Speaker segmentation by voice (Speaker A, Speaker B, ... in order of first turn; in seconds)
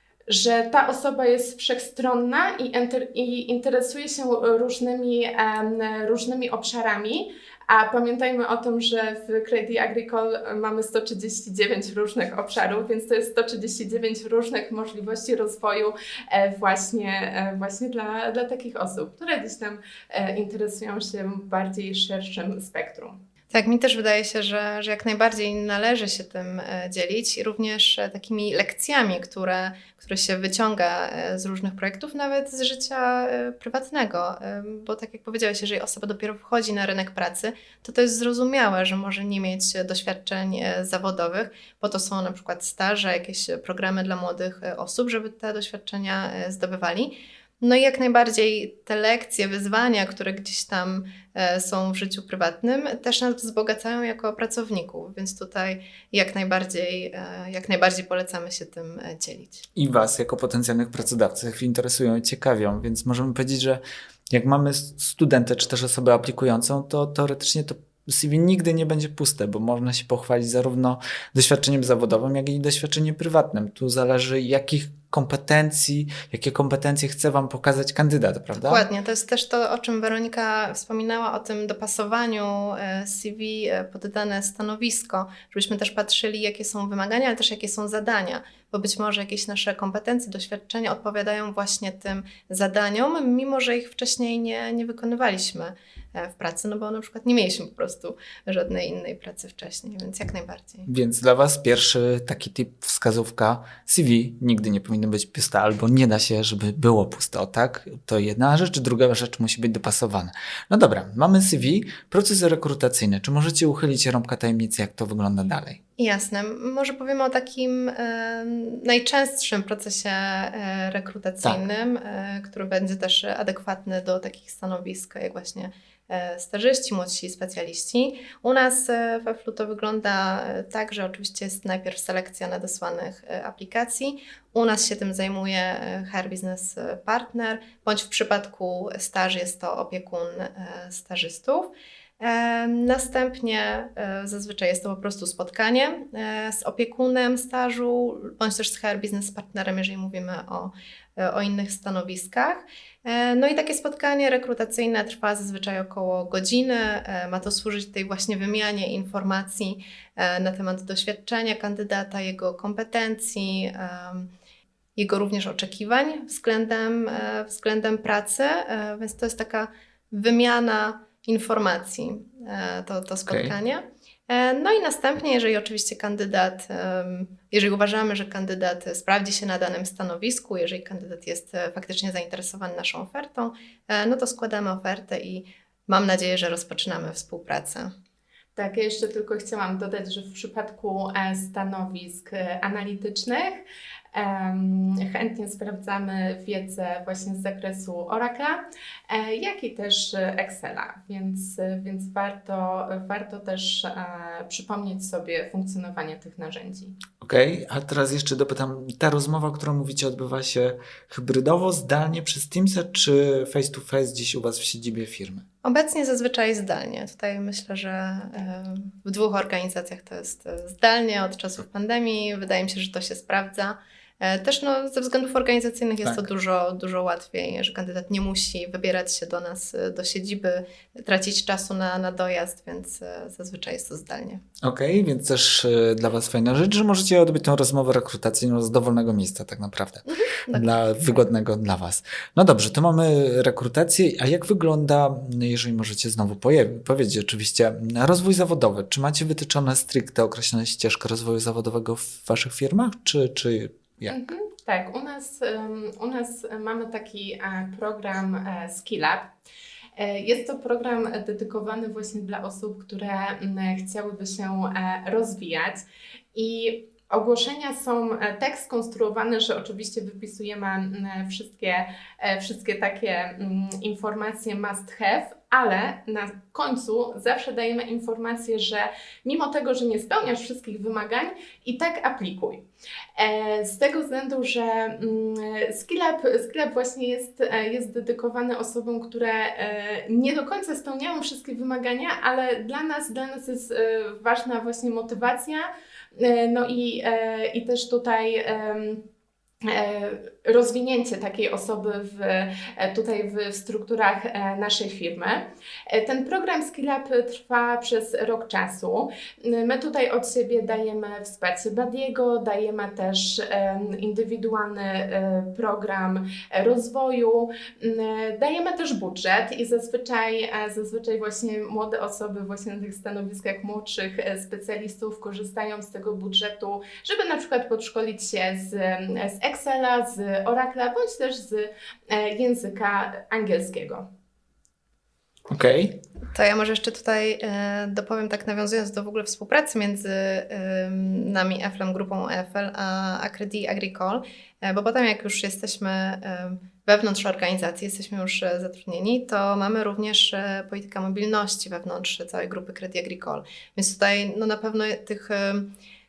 Speaker A: 0.3-23.2, 188.6-206.9, 254.1-259.3, 260.0-282.6, 283.2-299.1, 299.6-334.1
Speaker B: 23.5-59.7, 78.5-100.9, 116.0-164.3, 164.9-187.9, 215.6-234.4, 240.1-240.7, 336.3-355.7
Speaker C: 59.7-78.8, 100.8-115.8, 173.3-173.5, 207.2-215.4, 234.6-254.1, 335.5-336.0